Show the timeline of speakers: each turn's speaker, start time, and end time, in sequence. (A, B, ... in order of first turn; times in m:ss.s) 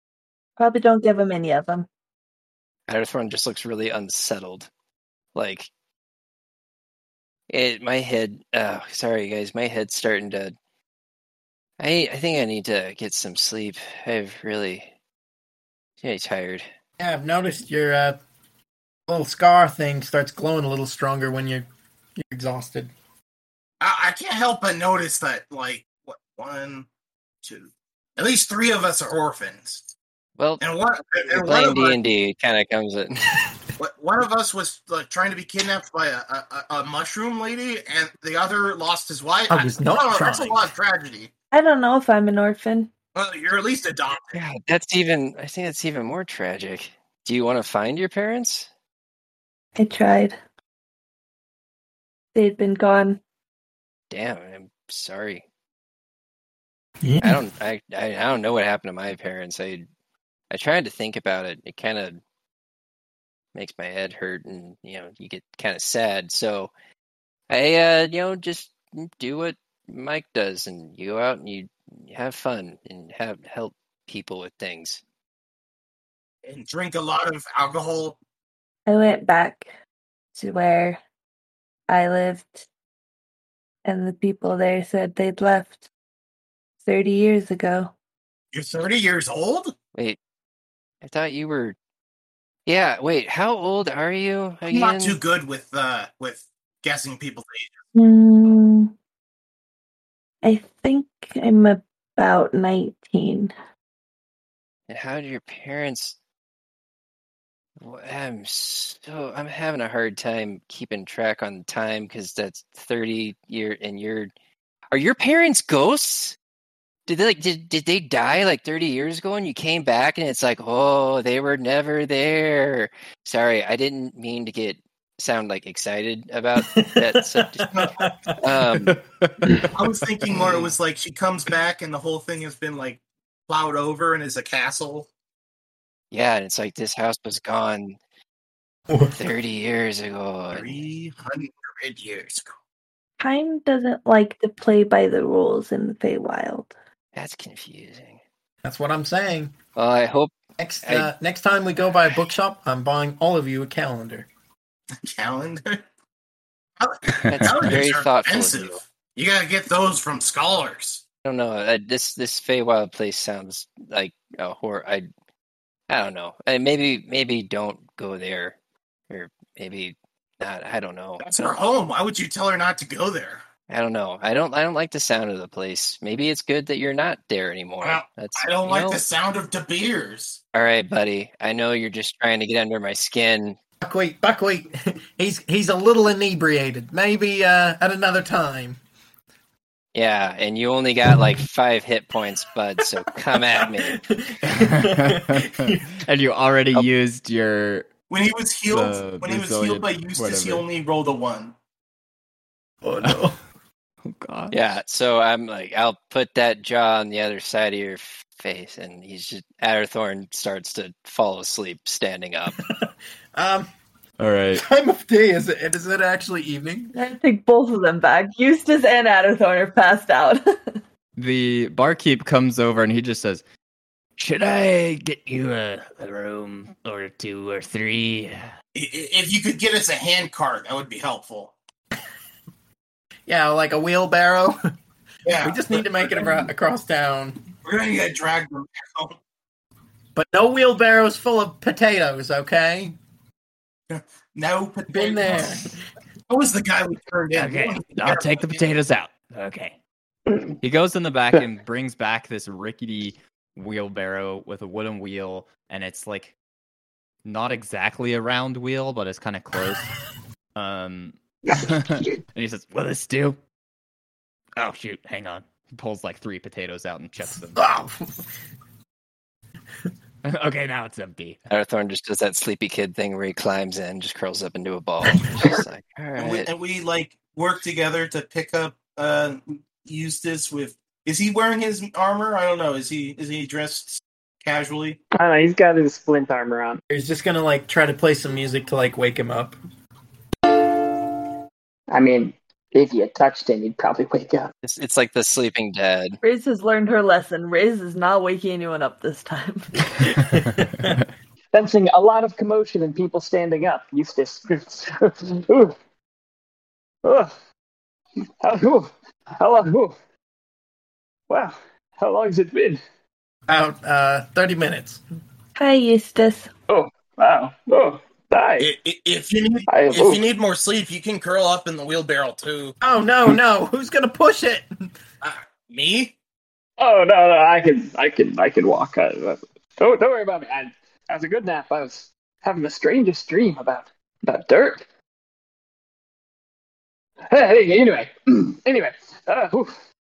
0:00.6-0:01.9 A
0:02.9-0:04.7 B
0:05.3-0:05.7 B
0:07.5-0:10.5 B
0:11.8-0:14.9 B
0:16.0-0:16.6 B
0:17.0-0:18.2 C
0:19.1-0:21.6 C
0:22.2-0:22.9 C
0:23.8-0:26.9 D
0:27.4-0:29.9 D
0:30.6-0:32.0 D
0:31.3-0:33.3 B
0:33.8-0:41.3 D
0:39.5-0:40.7 C
0:41.5-0:42.9 A
0:43.1-0:44.4 D
0:44.3-0:48.7 B
0:49.8-0:50.4 A
0:52.3-0:53.2 A
0:54.1-0:55.4 B
0:57.0-0:57.4 C
0:57.2-0:59.8 B
1:00.5-1:02.2 B
1:03.5-1:06.7 B
1:07.5-1:15.0 B
1:16.4-1:18.2 D
1:18.8-1:19.7 A
1:20.3-1:21.0 A
1:21.9-1:22.7 A
1:23.8-1:25.9 A
1:26.8-1:27.9 A
1:28.5-1:29.7 D
1:31.0-1:31.8 B
1:32.6-1:35.2 B
1:34.7-1:37.8 D
1:37.9-1:38.9 A
1:40.4-1:43.5 A
1:44.9-1:46.2 B
1:47.8-1:54.3 B
1:54.9-1:56.4 B
1:57.1-2:07.9 B
2:06.6-2:08.6 C
2:07.7-2:08.0 D
2:08.4-2:09.0 B
2:09.7-2:15.1 D
2:10.4-2:10.7 B
2:16.1-2:18.0 B
2:18.9-2:19.3 C
2:19.1-2:20.9 B
2:20.5-2:22.5 D
2:23.2-2:26.7 A
2:27.1-2:28.2 B
2:28.6-2:29.5 C
2:29.8-2:31.1 B
2:30.6-2:34.3 C
2:35.0-2:35.8 D
2:36.8-2:41.0 D
2:37.2-2:37.4 E
2:37.3-2:38.8 B
2:41.2-2:45.1 B
2:45.9-2:48.6 B
2:49.1-2:51.3 B
2:51.2-2:53.4 D
2:53.7-2:59.0 B
2:57.8-3:00.4 D
3:00.5-3:03.6 B
3:03.8-3:08.8 C
3:09.9-3:14.0 B
3:13.5-3:16.0 C
3:14.5-3:17.9 E
3:18.1-3:21.5 D
3:18.7-3:20.6 E
3:22.8-3:23.4 C
3:24.0-3:24.6 E
3:24.5-3:32.6 B
3:32.6-3:33.7 C
3:34.2-3:34.6 E
3:34.5-3:36.9 C
3:36.9-3:40.8 A
3:41.2-3:43.4 E
3:44.2-3:48.4 E
3:48.7-3:51.5 D
3:53.3-3:54.6 C
3:55.2-3:56.5 D
3:55.4-3:57.4 C
3:57.6-3:59.2 D
4:00.1-4:03.0 C
4:03.9-4:05.7 D
4:04.9-4:05.8 C
4:06.3-4:08.6 D
4:07.4-4:09.8 E
4:10.6-4:16.3 E
4:17.2-4:19.9 E
4:20.5-4:23.4 E
4:21.5-4:22.2 F
4:24.6-4:27.6 E
4:27.2-4:28.2 C
4:30.2-4:31.4 E
4:31.5-4:36.5 B
4:36.2-4:45.0 D
4:45.1-4:46.8 F
4:46.9-4:49.6 C
4:51.9-4:54.5 F
4:54.6-4:56.2 B
4:56.2-4:59.8 A
5:00.2-5:01.0 E
5:00.3-5:01.0 C
5:01.5-5:05.7 F
5:07.0-5:07.3 F
5:08.4-5:10.0 F
5:11.3-5:12.8 F
5:13.5-5:15.0 C
5:15.6-5:16.5 A
5:16.7-5:18.7 F
5:18.6-5:22.7 D
5:19.7-5:20.2 F
5:22.8-5:24.7 C
5:25.2-5:26.1 D
5:26.8-5:34.8 F
5:37.3-5:39.7 F